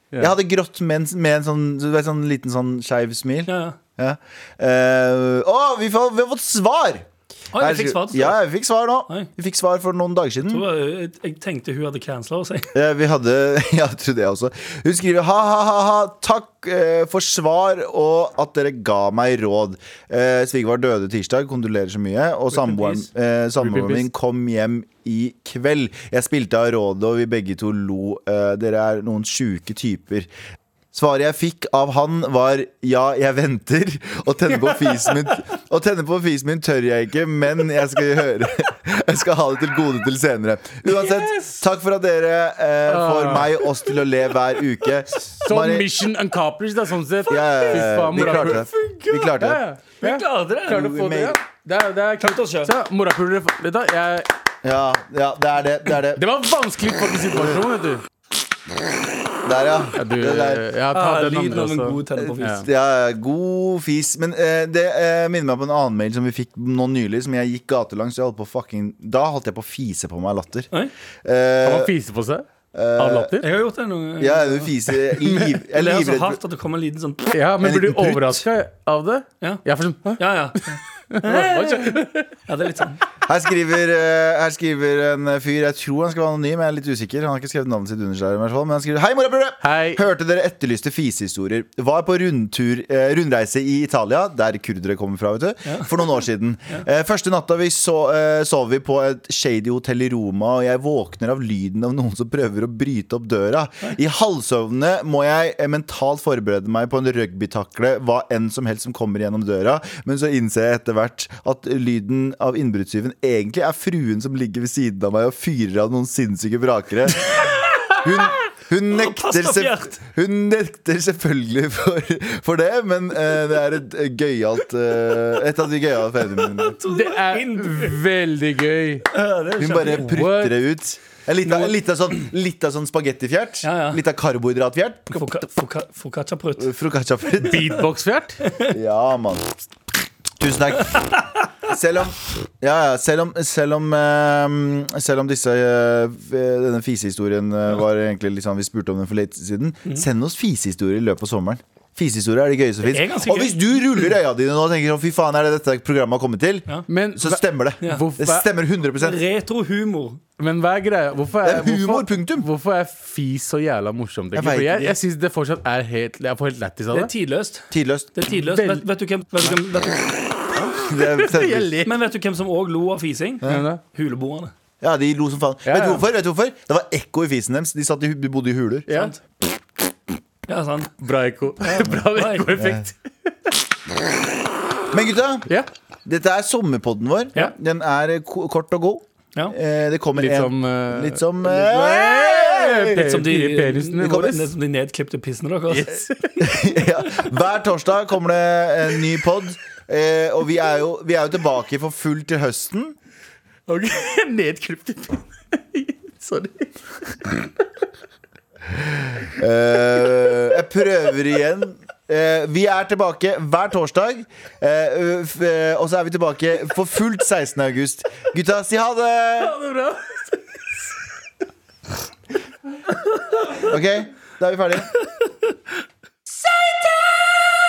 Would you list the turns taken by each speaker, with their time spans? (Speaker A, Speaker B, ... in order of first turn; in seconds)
Speaker A: 0.2-10.6, 12.7-30.3, 30.9-45.9, 47.3-49.6, 50.7-51.4, 54.6-56.2, 57.3-57.6, 59.4-60.6, 62.2-70.7, 71.2-71.9, 72.7-73.4, 74.2-76.4, 77.6-78.4, 83.2-126.7, 129.6-135.2, 136.6-137.8, 138.7-139.5, 140.4-159.2, 161.4-162.5, 164.3-164.9, 167.7-168.1, 170.6-171.8, 174.8-178.9, 181.7-181.9, 182.6-182.8, 184.9-185.5, 186.1-193.0, 194.0-194.4, 196.4-202.9, 208.8-219.6, 223.6-224.9
Speaker B: 3.5-3.8, 7.5-8.4, 10.5-12.7, 22.5-23.0, 40.9-41.6, 47.4-49.4, 50.0-50.8, 52.2-52.7, 60.9-62.6, 73.4-74.7, 75.7-77.3, 80.2-83.0, 117.3-118.0, 118.9-120.0, 126.4-128.0, 129.1-130.2, 133.6-134.0, 135.1-136.7, 138.4-138.7, 152.8-154.0, 159.0-160.2, 166.9-170.1, 171.8-174.5, 180.5-180.9, 181.7-182.5, 192.9-196.5
Speaker C: 23.6-24.0, 42.9-43.6, 45.4-48.6, 49.4-54.3, 56.1-58.0, 60.0-62.6, 71.6-73.5, 75.2-75.6, 77.3-80.2, 81.1-82.3, 89.6-90.0, 126.8-129.1, 130.0-130.6, 137.4-138.4, 156.9-158.5, 160.4-167.1, 168.3-168.8, 170.6-171.9, 173.4-173.8, 175.7-176.0, 178.9-179.1, 181.0-183.0, 190.2-194.4, 195.7-196.5, 203.7-207.5, 219.4-220.2